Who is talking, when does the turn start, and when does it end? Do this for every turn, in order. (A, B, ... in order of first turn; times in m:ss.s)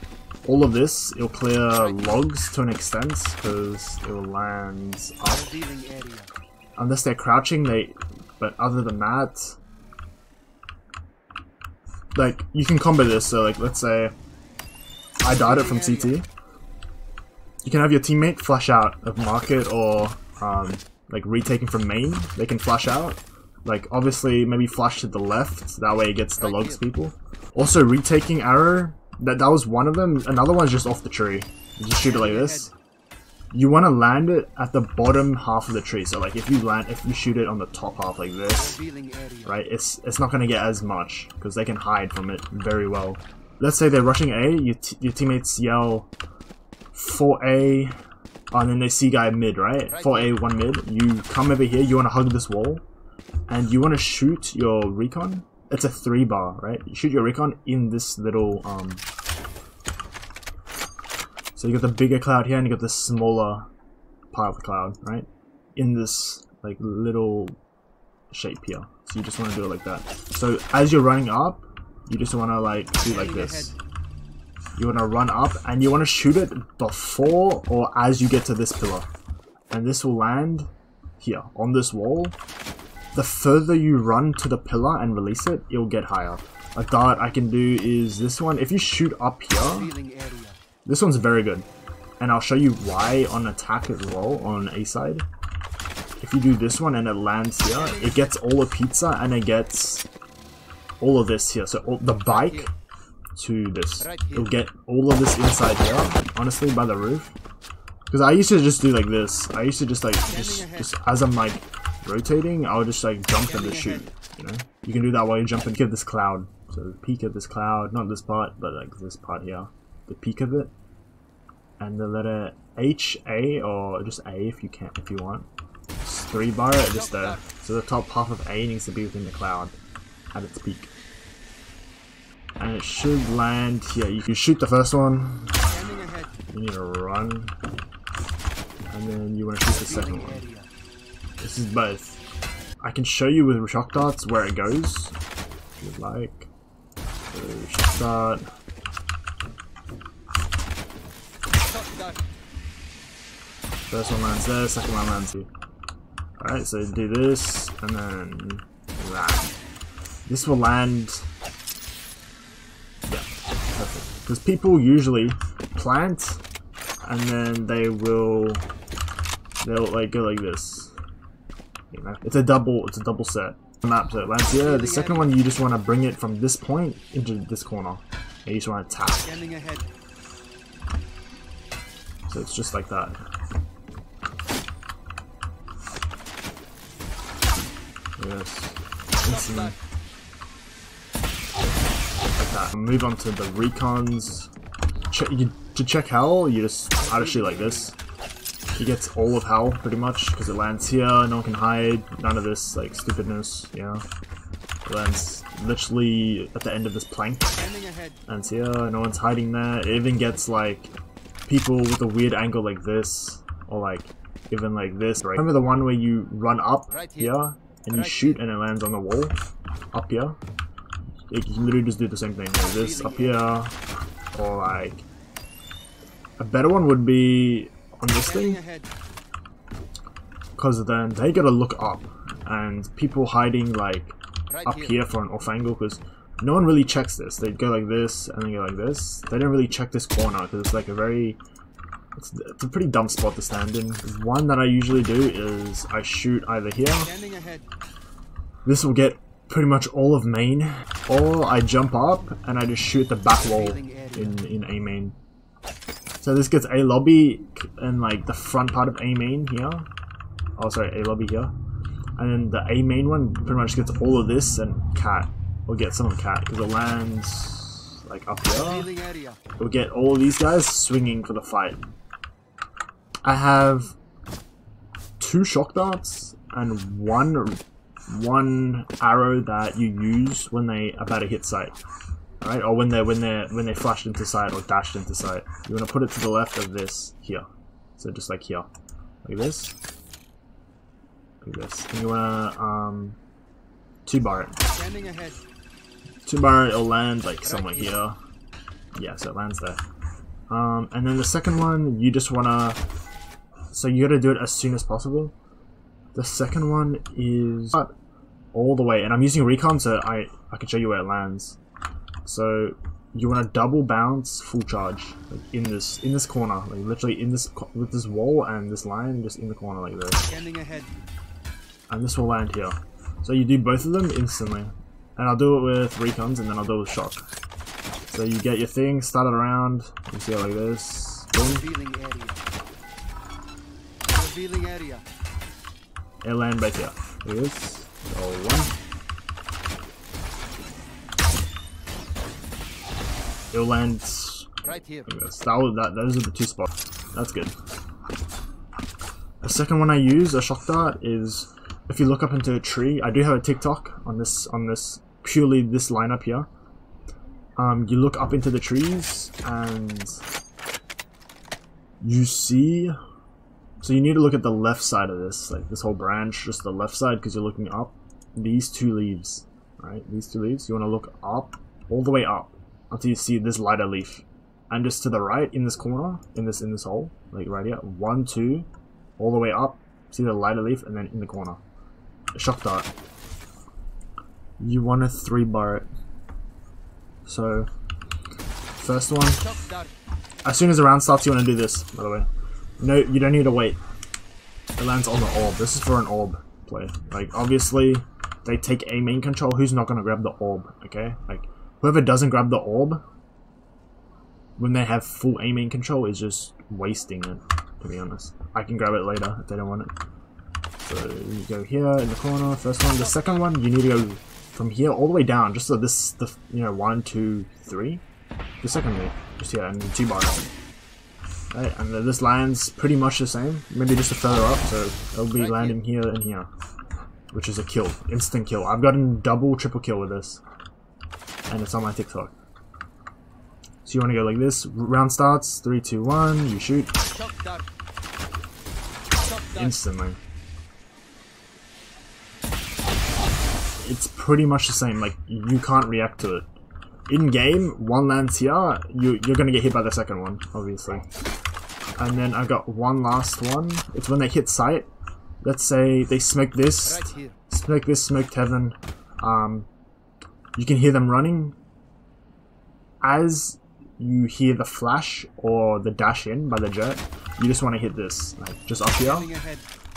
0:00.4-0:05.5 A
0:05.2-0:06.3 B
0:06.8-0:09.6 A
0:12.1-0:14.1 A
0:15.2-0:16.3 A
0:15.3-0:16.2 B
0:17.6-0:32.7 A
0:32.1-0:32.7 B
0:33.5-0:38.8 A
0:38.5-0:39.6 B
0:39.4-0:46.1 A
0:46.9-0:48.0 A
0:48.5-0:52.8 A
0:53.5-0:59.0 A
1:01.6-1:03.7 A
1:04.3-1:07.6 A
1:08.3-1:13.7 A
1:13.0-1:13.7 B
1:14.8-1:19.1 A
1:19.7-1:20.7 A
1:21.2-1:22.4 A
1:23.1-1:29.9 A
1:29.6-1:30.6 B
1:30.8-1:31.6 A
1:32.2-1:35.2 A
1:36.2-1:40.1 A
1:37.8-1:38.2 B
1:41.0-1:42.7 A
1:43.4-1:47.3 A
1:48.1-2:00.7 A
1:50.3-1:50.8 B
1:53.5-1:54.0 B
2:01.8-2:05.5 A
2:06.0-2:09.8 A
2:06.9-2:07.4 B
2:10.3-2:10.9 A
2:12.6-2:15.7 A
2:15.7-2:16.4 B
2:16.5-2:17.6 A
2:18.9-2:20.4 A
2:19.7-2:20.7 B
2:21.4-2:22.2 A
2:22.8-2:25.2 A
2:25.8-2:26.5 A
2:27.3-2:28.5 A
2:31.7-2:32.2 B
2:33.9-2:35.5 A
2:36.4-2:39.5 A
2:40.2-2:41.3 A
2:43.1-2:46.4 A
2:47.0-2:48.6 A
2:49.6-2:50.9 A
2:51.9-2:59.3 A
2:54.6-2:55.2 B
2:59.2-2:59.9 B
3:02.3-3:03.2 A
3:08.2-3:09.7 A
3:12.4-3:14.5 A
3:15.1-3:18.0 A
3:17.0-3:17.9 B
3:18.8-3:24.0 A
3:24.8-3:27.6 A
3:27.6-3:28.2 B
3:28.3-3:30.9 A
3:31.5-3:39.4 A
3:39.9-3:40.4 A
3:41.3-3:43.7 A
3:42.8-3:43.3 B
3:44.3-3:45.1 A
3:46.4-3:48.6 A
3:48.2-3:48.9 B
3:50.6-4:01.4 A
4:02.2-4:07.1 A
4:07.0-4:07.7 B
4:08.6-4:15.2 A
4:13.4-4:14.4 B
4:16.2-4:19.9 A
4:20.6-4:21.5 A
4:22.2-4:28.9 A
4:28.5-4:29.4 B
4:29.6-4:31.8 A
4:33.2-4:34.0 A
4:35.2-4:41.8 A
4:42.4-4:47.4 A
4:48.0-4:48.7 A
4:49.2-4:49.8 A
4:51.4-4:53.2 A
4:54.0-4:54.6 A
4:54.6-4:55.4 B
4:56.2-4:58.2 A
4:59.0-4:59.8 A
5:00.5-5:02.8 A
5:03.7-5:05.3 A
5:06.1-5:07.9 A
5:08.5-5:11.6 A
5:12.2-5:20.2 A
5:20.3-5:20.9 B
5:21.9-5:27.2 A
5:28.1-5:31.7 A
5:31.4-5:32.5 B
5:34.1-5:35.0 B
5:36.2-5:38.7 A
5:43.5-5:47.5 A
5:44.7-5:45.0 B
5:49.4-5:56.5 A
5:57.6-6:00.2 A
6:02.0-6:03.0 A
6:03.8-6:21.6 A
6:22.3-6:22.9 A
6:24.6-6:25.9 A
6:27.2-6:27.7 A
6:28.8-6:29.5 A
6:29.4-6:29.9 B
6:30.4-6:32.3 A
6:32.8-6:33.8 A
6:34.8-6:43.0 A
6:44.6-6:49.9 A
6:50.8-6:58.0 A
6:58.6-7:00.5 A
7:01.5-7:06.5 A
7:07.3-7:10.4 A
7:11.5-7:12.4 A
7:13.8-7:16.9 A
7:17.1-7:17.6 B
7:19.3-7:19.6 B
7:19.5-7:20.2 A
7:23.8-7:26.5 A
7:27.1-7:31.0 A
7:32.0-7:34.9 A
7:35.4-7:39.7 A
7:40.5-7:41.6 A
7:43.0-7:49.3 A
7:49.0-7:49.7 B